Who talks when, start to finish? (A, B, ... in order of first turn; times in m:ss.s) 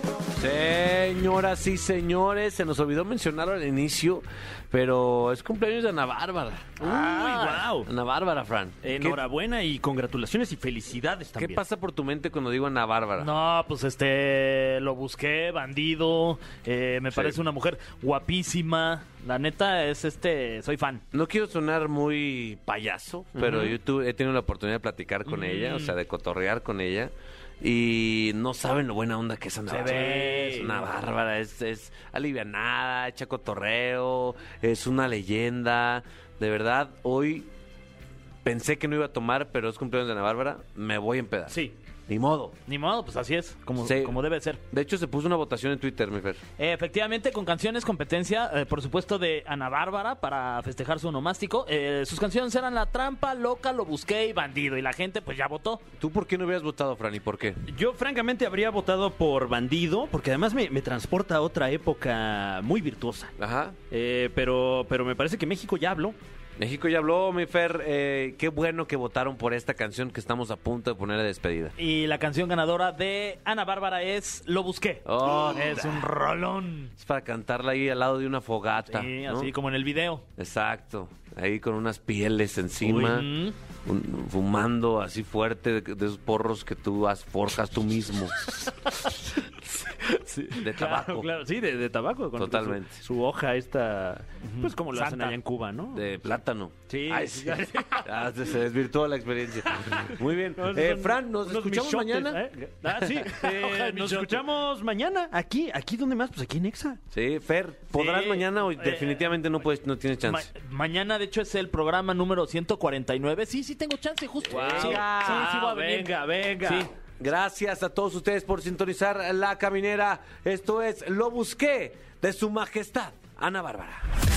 0:00.4-0:06.8 A
0:06.8-0:07.9 B
0:06.8-0:07.8 C
0:07.8-0:09.2 A
0:08.8-0:11.6 B
0:11.3-0:13.3 A
0:13.2-0:21.0 C
0:17.1-0:17.4 A
0:21.1-0:37.5 A
0:23.4-0:23.7 B
0:23.4-0:23.7 C
0:25.3-0:25.9 C
0:29.7-0:30.9 C
0:29.9-0:30.8 B
0:38.4-0:42.6 A
0:42.7-0:44.6 C
0:43.8-0:46.4 A
0:46.6-0:55.8 C
0:56.0-0:57.6 A
0:57.6-1:03.3 B
1:03.4-1:03.8 A
1:03.9-1:06.2 B
1:06.6-1:11.7 A
1:11.8-1:16.9 C
1:15.0-1:16.0 A
1:17.0-1:19.5 A
1:18.8-1:20.2 C
1:20.4-1:23.3 A
1:22.8-1:23.6 C
1:23.8-1:28.4 A
1:29.8-1:36.1 B
1:30.5-1:31.3 A
1:32.3-1:33.0 A
1:34.4-1:35.4 C
1:35.9-1:42.5 A
1:36.8-1:38.0 B
1:40.0-1:47.0 B
1:43.2-1:44.4 C
1:47.1-1:50.5 A
1:47.9-1:49.1 B
1:48.8-1:49.2 C
1:50.2-1:56.1 C
1:54.5-1:56.9 B
1:54.5-2:04.1 A